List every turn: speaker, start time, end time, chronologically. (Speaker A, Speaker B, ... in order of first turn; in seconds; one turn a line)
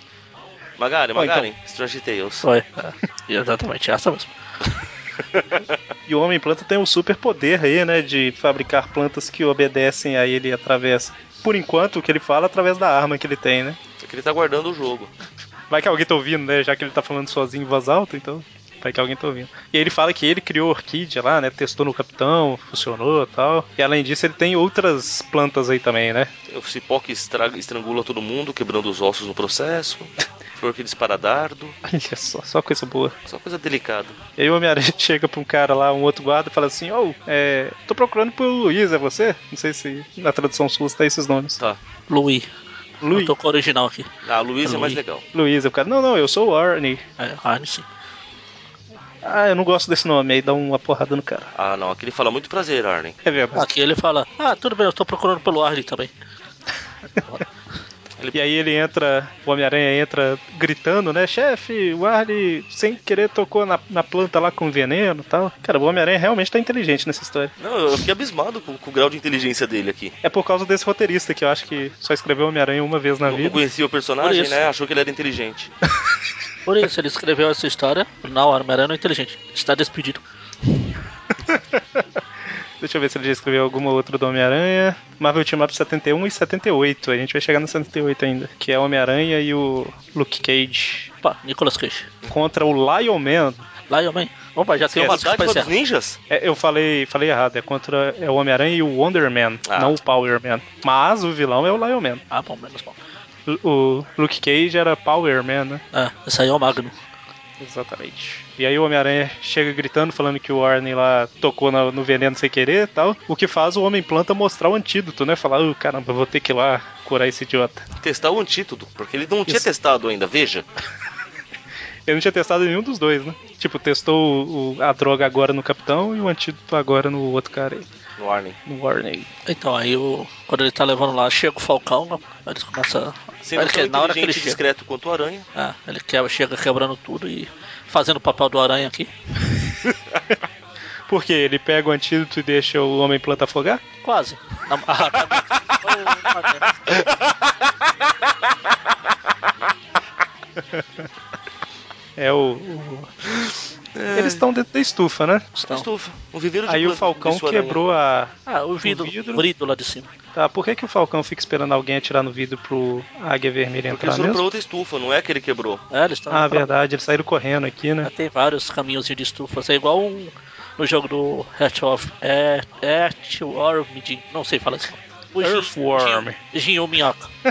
Speaker A: 0.8-2.5
Speaker B: 1.1-1.5
Speaker C: 2.4-4.3
Speaker A: 5.3-5.7
Speaker B: 6.1-13.8
Speaker A: 14.0-15.1
Speaker B: 15.7-26.3
Speaker A: 26.5-31.8
Speaker B: 31.8-33.1
Speaker A: 33.2-34.2
Speaker B: 34.4-41.6
Speaker C: 42.1-42.5
Speaker B: 43.0-43.3
Speaker C: 43.1-44.1
Speaker A: 44.2-45.2
Speaker C: 44.6-45.0
Speaker B: 45.3-47.0
Speaker C: 47.2-47.9
Speaker B: 49.2-51.5
Speaker A: 51.5-53.2
Speaker B: 53.2-53.6
Speaker C: 53.5-56.1
Speaker B: 58.3-67.5
Speaker A: 67.6-70.1
Speaker B: 70.2-73.6
Speaker A: 73.2-75.7
Speaker C: 74.2-74.6
Speaker C: 76.7-80.2
Speaker B: 81.5-82.0
Speaker B: 82.8-91.1
Speaker C: 91.2-92.1
Speaker B: 92.3-93.6
Speaker C: 93.9-95.7
Speaker B: 94.9-95.2
Speaker A: 95.0-96.2
Speaker B: 96.3-102.2
Speaker A: 99.7-100.0
Speaker C: 102.3-103.0
Speaker B: 103.5-105.8
Speaker C: 105.9-106.9
Speaker B: 107.6-117.8
Speaker A: 118.0-120.7
Speaker B: 122.1-127.9
Speaker A: 128.2-128.6
Speaker B: 128.7-129.3
Speaker C: 129.4-134.6
Speaker A: 133.4-135.4
Speaker C: 135.5-139.1
Speaker B: 141.1-143.8
Speaker C: 144.0-146.9
Speaker B: 150.6-151.1
Speaker B: 152.2-153.1
Speaker A: 153.9-154.4
Speaker B: 154.1-155.6
Speaker A: 155.7-157.8
Speaker B: 156.7-159.4
Speaker C: 158.5-160.1
Speaker B: 160.3-164.4
Speaker A: 163.9-165.8
Speaker C: 165.9-166.7
Speaker B: 166.3-168.1
Speaker C: 168.0-177.3
Speaker B: 175.4-176.4